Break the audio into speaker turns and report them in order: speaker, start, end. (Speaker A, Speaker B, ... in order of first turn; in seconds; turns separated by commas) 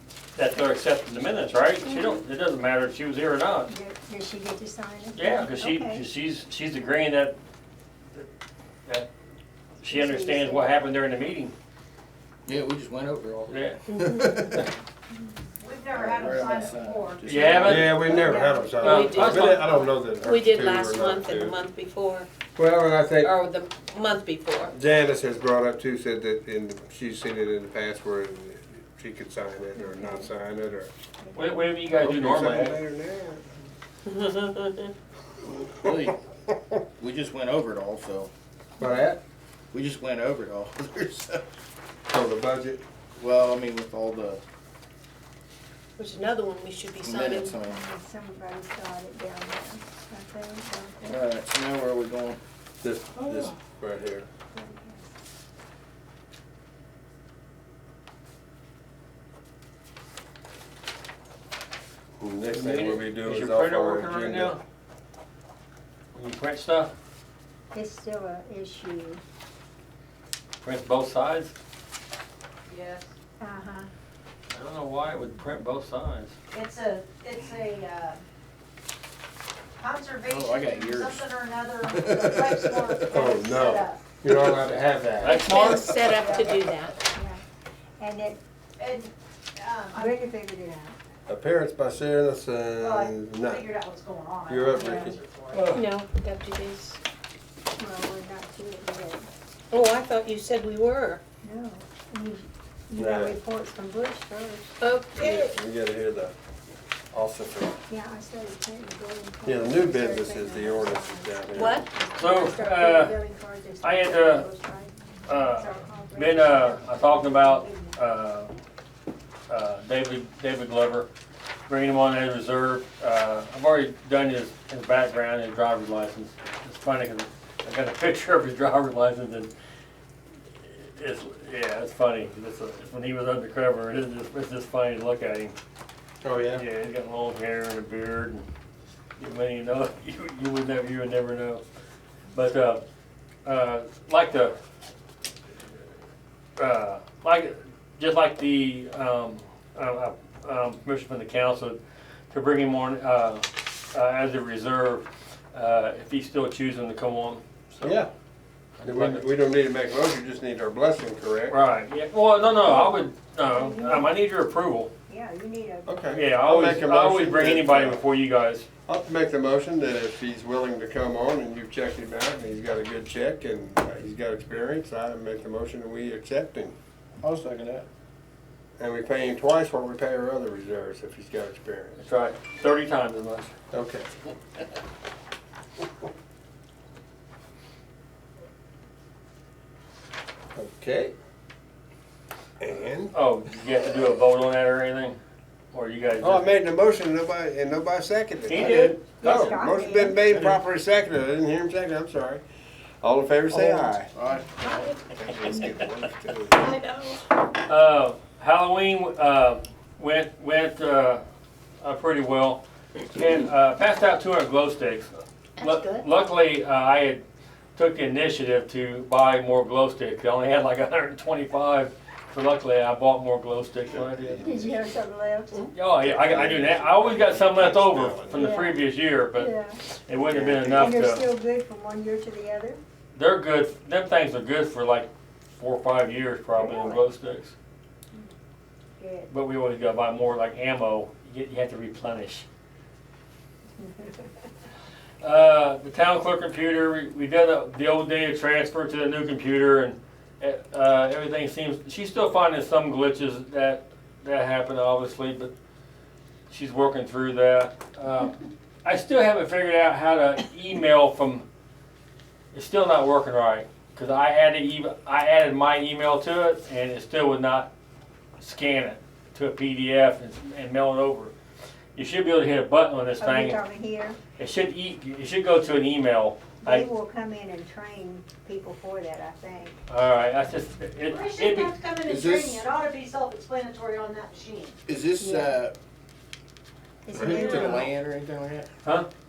Speaker A: 0.4-3.7, Speaker B: 1.8-2.2, Speaker C: 3.7-6.0, Speaker A: 5.2-7.4, Speaker A: 9.8-11.5, Speaker C: 9.9-10.7, Speaker D: 12.5-14.7, Speaker A: 13.5-13.8, Speaker B: 13.9-14.3, Speaker E: 15.6-17.7, Speaker D: 15.9-18.2, Speaker A: 17.3-18.0, Speaker F: 17.6-21.6, Speaker C: 18.1-18.8, Speaker B: 18.8-22.3, Speaker A: 18.8-19.7, Speaker F: 22.6-23.3, Speaker B: 23.2-24.7, Speaker F: 24.7-30.9, Speaker C: 29.8-30.3, Speaker C: 31.2-31.6, Speaker A: 31.4-32.8, Speaker F: 31.9-33.5, Speaker B: 34.1-34.9, Speaker D: 35.7-36.2, Speaker D: 37.0-38.3, Speaker F: 38.8-39.2, Speaker D: 39.7-41.4, Speaker F: 42.1-42.8, Speaker D: 43.2-44.4, Speaker B: 46.0-47.5, Speaker D: 47.0-47.8, Speaker C: 47.3-51.2, Speaker D: 51.0-52.4, Speaker F: 52.8-54.3, Speaker C: 54.5-55.0, Speaker F: 62.2-64.6, Speaker A: 62.5-64.6, Speaker A: 66.1-66.9, Speaker C: 67.7-69.2, Speaker A: 70.6-71.5, Speaker E: 72.7-73.1, Speaker C: 73.4-73.9, Speaker A: 74.5-76.4, Speaker E: 76.5-78.2, Speaker E: 79.8-84.1, Speaker D: 80.3-81.3, Speaker D: 81.9-83.2, Speaker F: 83.1-85.6, Speaker D: 84.2-84.7, Speaker A: 85.2-85.9, Speaker B: 85.3-87.0, Speaker D: 85.7-86.0, Speaker C: 86.1-87.4, Speaker C: 88.0-88.4, Speaker E: 88.8-90.2, Speaker C: 90.0-91.0, Speaker F: 91.3-93.6, Speaker E: 92.8-95.7, Speaker F: 94.5-95.2, Speaker C: 94.8-95.1, Speaker B: 95.7-97.0, Speaker C: 97.8-99.3, Speaker B: 99.7-101.2, Speaker C: 101.4-104.7, Speaker F: 103.0-103.4, Speaker B: 104.8-105.5, Speaker F: 105.1-106.3, Speaker F: 107.1-107.8, Speaker C: 107.9-118.0, Speaker F: 109.5-111.8, Speaker B: 111.5-111.8, Speaker A: 112.2-113.2, Speaker A: 113.8-114.5, Speaker A: 115.3-118.5, Speaker A: 119.5-121.1, Speaker A: 121.7-129.5, Speaker A: 130.6-135.6, Speaker F: 136.2-136.7, Speaker A: 136.6-138.4, Speaker A: 139.2-141.6, Speaker A: 142.3-142.8, Speaker A: 143.4-144.6, Speaker A: 146.6-151.8, Speaker A: 152.3-158.0, Speaker F: 157.8-158.1, Speaker A: 158.8-159.2, Speaker F: 158.8-161.6, Speaker A: 161.5-164.9, Speaker C: 162.6-164.2, Speaker C: 165.1-166.0, Speaker F: 165.9-168.0, Speaker A: 166.1-168.7, Speaker F: 168.9-176.8, Speaker D: 177.2-177.9, Speaker F: 178.8-182.0, Speaker A: 182.0-183.5, Speaker F: 183.7-184.1, Speaker F: 190.6-191.1, Speaker F: 192.6-193.2, Speaker A: 193.1-195.2, Speaker A: 195.7-196.6, Speaker F: 196.2-202.4, Speaker A: 198.5-199.6, Speaker D: 198.5-199.0, Speaker C: 199.2-200.2, Speaker F: 203.0-204.1, Speaker D: 203.5-205.5, Speaker F: 204.6-206.7, Speaker B: 206.6-207.2, Speaker A: 207.7-211.2, Speaker A: 211.8-217.2, Speaker B: 215.6-216.1, Speaker A: 217.8-224.5, Speaker F: 223.9-224.4, Speaker D: 224.2-224.6, Speaker C: 224.4-225.7, Speaker A: 225.7-231.3, Speaker F: 226.0-228.6, Speaker C: 228.3-228.8, Speaker C: 229.3-229.8, Speaker D: 230.3-230.8, Speaker F: 230.4-230.8, Speaker C: 230.7-232.8, Speaker A: 233.2-237.6, Speaker C: 236.6-237.0, Speaker C: 239.0-239.3, Speaker A: 239.3-242.4, Speaker C: 243.8-244.2, Speaker A: 245.2-255.5, Speaker A: 256.5-261.4, Speaker A: 262.5-267.7, Speaker A: 268.4-271.3, Speaker A: 271.9-273.6, Speaker C: 273.2-274.2, Speaker A: 274.4-276.9, Speaker C: 276.6-279.8, Speaker A: 279.9-281.8, Speaker E: 281.1-284.8, Speaker D: 282.1-282.6, Speaker D: 284.9-285.8, Speaker C: 285.2-285.6, Speaker C: 287.1-287.9, Speaker D: 287.1-288.7, Speaker A: 287.2-287.8